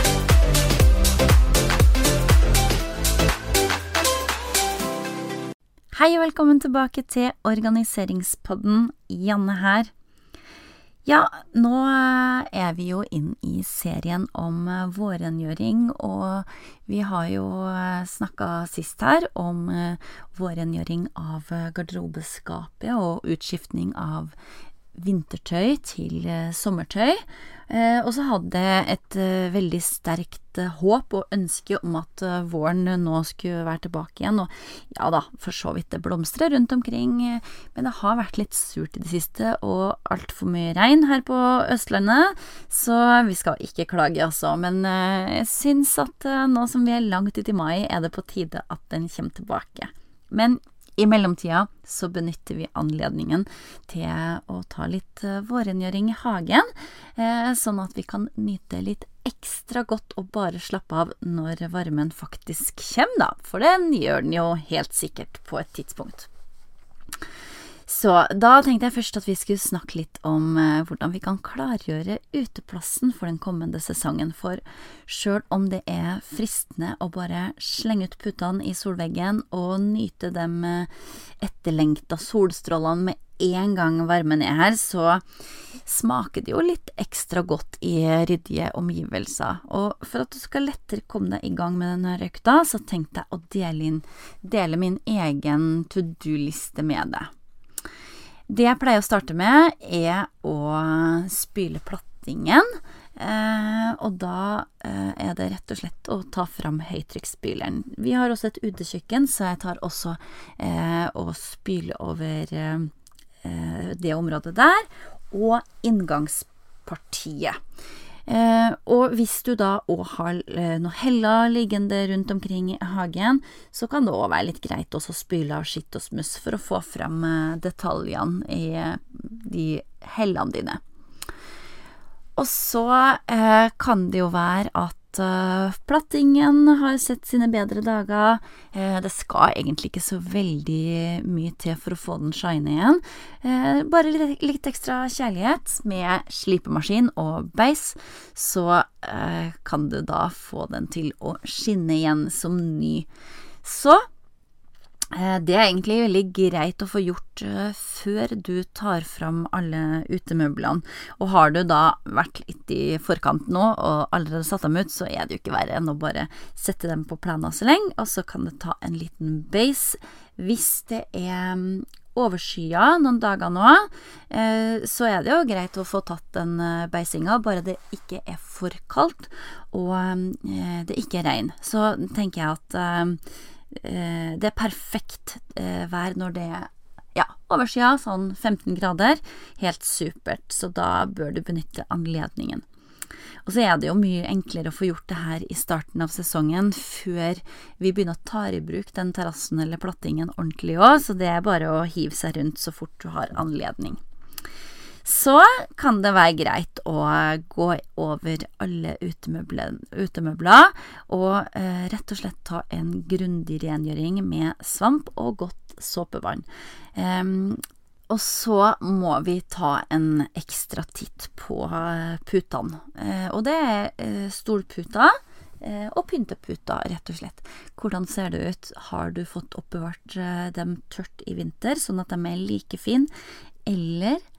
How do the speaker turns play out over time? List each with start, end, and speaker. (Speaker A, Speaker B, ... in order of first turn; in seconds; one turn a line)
Speaker A: 5.9-9.9
Speaker A: 11.1-24.4
Speaker A: 24.9-66.3
Speaker A: 67.9-85.2
Speaker A: 85.8-97.3
Speaker A: 98.5-112.9
Speaker A: 113.4-117.6
Speaker A: 118.3-130.8
Speaker A: 132.4-153.1
Speaker A: 153.6-154.1
Speaker A: 155.1-192.7
Speaker A: 193.4-204.0
Speaker A: 205.0-233.1
Speaker A: 233.7-234.2